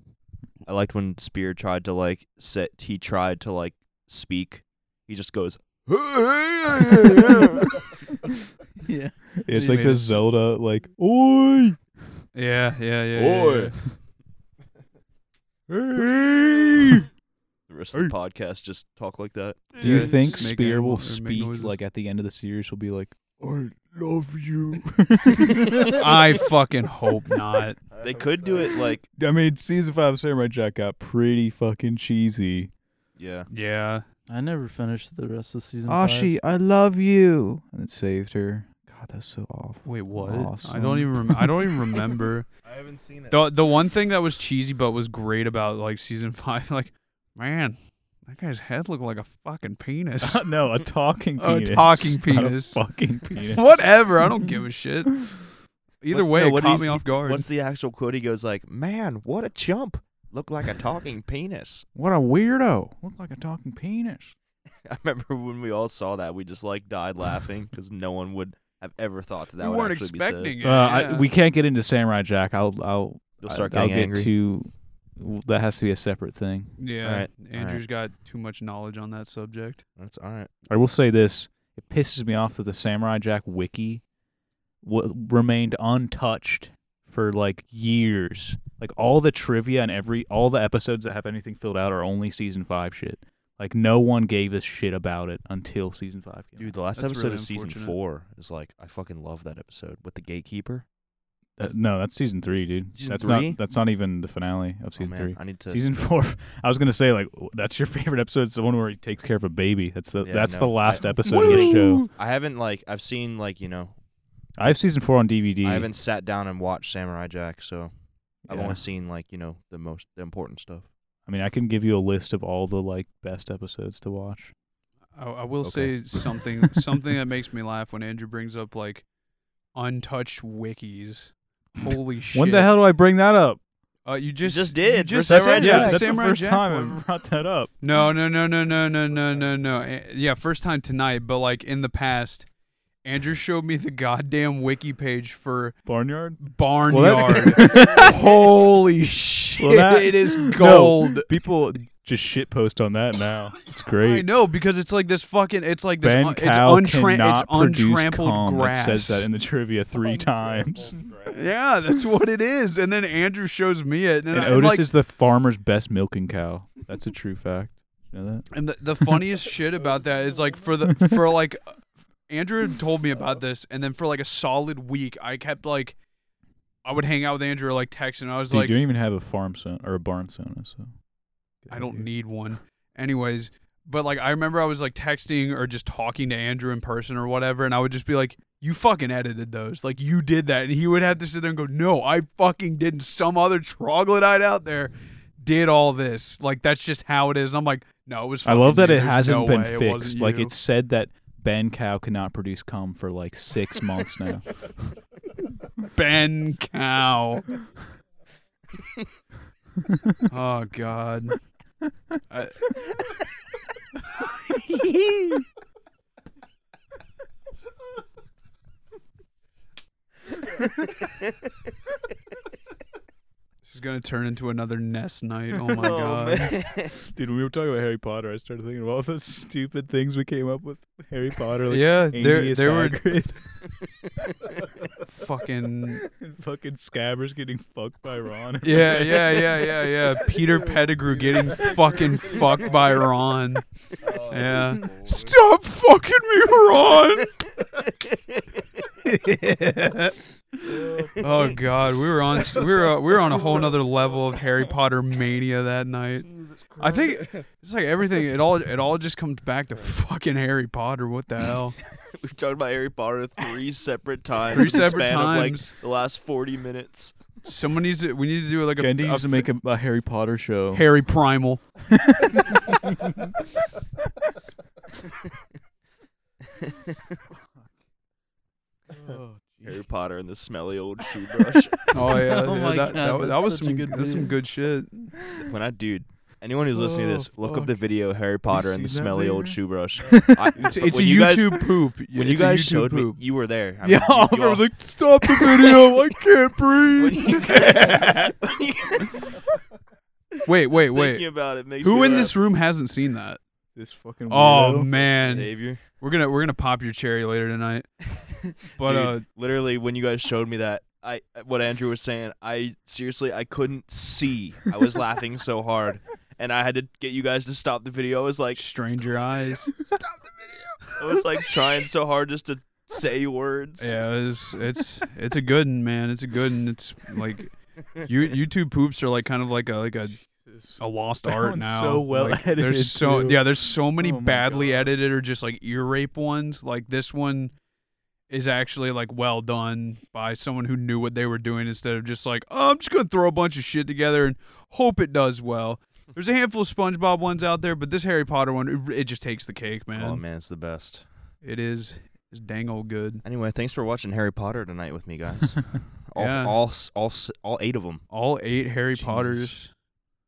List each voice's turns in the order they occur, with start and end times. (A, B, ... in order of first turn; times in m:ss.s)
0:00.6-0:07.8 A
0:08.8-0:10.2 B
0:09.4-0:12.0 C
0:12.3-0:13.8 D
0:13.1-0:13.8 A
0:15.7-0:17.1 C
0:17.7-0:20.5 A
0:19.8-0:21.8 D
0:19.8-0:26.5 C
0:25.9-0:27.8 D
0:28.0-0:29.1 A
0:29.2-0:32.7 C
0:33.2-0:33.5 A
0:33.5-0:34.0 D
0:34.3-0:36.3 B
0:35.9-0:42.0 C
0:39.8-0:42.5 D
0:42.6-0:43.5 E
0:43.3-0:50.4 D
0:50.2-0:54.3 C
0:51.4-0:55.5 D
0:55.2-0:55.5 C
0:56.0-0:57.5 D
0:56.1-1:01.8 A
1:01.9-1:04.4 C
1:04.8-1:10.5 A
1:09.6-1:11.3 D
1:10.6-1:16.8 C
1:13.4-1:14.3 A
1:16.8-1:19.8 D
1:17.0-1:17.8 A
1:20.0-1:20.5 A
1:20.7-1:24.0 C
1:24.8-1:36.8 C
1:36.6-1:40.9 A
1:36.9-1:38.0 D
1:41.6-1:52.1 C
1:42.9-1:43.6 A
1:45.0-1:45.8 A
1:50.2-1:54.0 A
1:54.6-1:55.9 C
1:55.6-1:57.9 A
1:58.4-2:00.9 A
1:58.5-1:58.8 C
2:01.2-2:04.5 C
2:05.1-2:09.0 D
2:05.6-2:06.1 A
2:09.7-2:12.8 D
2:12.3-2:13.6 C
2:14.0-2:17.0 D
2:14.4-2:16.2 A
2:15.2-2:17.7 C
2:17.8-2:22.5 D
2:23.0-2:25.8 D
2:25.8-2:28.2 C
2:26.4-2:31.3 D
2:29.6-2:34.3 C
2:34.0-2:39.3 D
2:36.0-2:41.2 C
2:41.3-2:44.9 D
2:44.3-2:48.5 C
2:48.5-2:56.0 D
2:56.8-2:58.8 D
2:58.5-3:00.9 C
3:01.6-3:02.1 C
3:01.7-3:20.5 D
3:18.4-3:24.7 C
3:25.8-3:27.5 D
3:30.3-3:31.4 D
3:32.3-3:32.8 D
3:34.7-3:35.3 D
3:41.0-3:41.2 A
3:43.6-3:46.6 D
3:45.7-3:47.0 A
3:47.1-3:53.6 C
3:51.7-3:53.2 D
3:55.0-3:56.0 D
3:56.0-3:59.7 C
3:58.6-4:07.4 D
4:01.4-4:01.7 C
4:04.0-4:05.3 E
4:07.8-4:08.8 A
4:09.0-4:21.8 D
4:10.9-4:11.5 A
4:22.0-4:27.3 A
4:24.5-4:25.8 D
4:27.4-4:29.5 D
4:28.8-4:30.9 C
4:30.7-4:31.7 D
4:31.9-4:32.7 C
4:39.0-4:39.6 C
4:39.6-4:42.0 A
4:41.9-4:45.2 D
4:42.2-4:44.3 B
4:45.5-4:54.8 A
4:46.7-4:47.7 C
4:48.4-4:49.6 C
4:50.1-4:50.6 C
4:50.7-4:53.2 D
4:53.8-4:57.1 C
4:55.2-4:55.7 D
4:55.4-4:55.9 A
4:56.9-4:59.4 A
4:57.2-4:58.3 D
5:00.4-5:03.4 D
5:00.7-5:02.4 A
5:03.7-5:05.1 C
5:04.3-5:09.2 D
5:05.2-5:05.8 A
5:08.8-5:18.7 A
5:18.6-5:19.8 D
5:21.0-5:24.0 A
5:23.8-5:37.5 D
5:30.1-5:34.9 C
5:38.3-5:50.2 D
5:49.9-5:51.3 A
5:51.4-5:53.2 D
5:53.2-5:58.0 A
5:56.2-5:56.6 D
5:58.1-5:59.7 D
5:58.9-5:59.6 C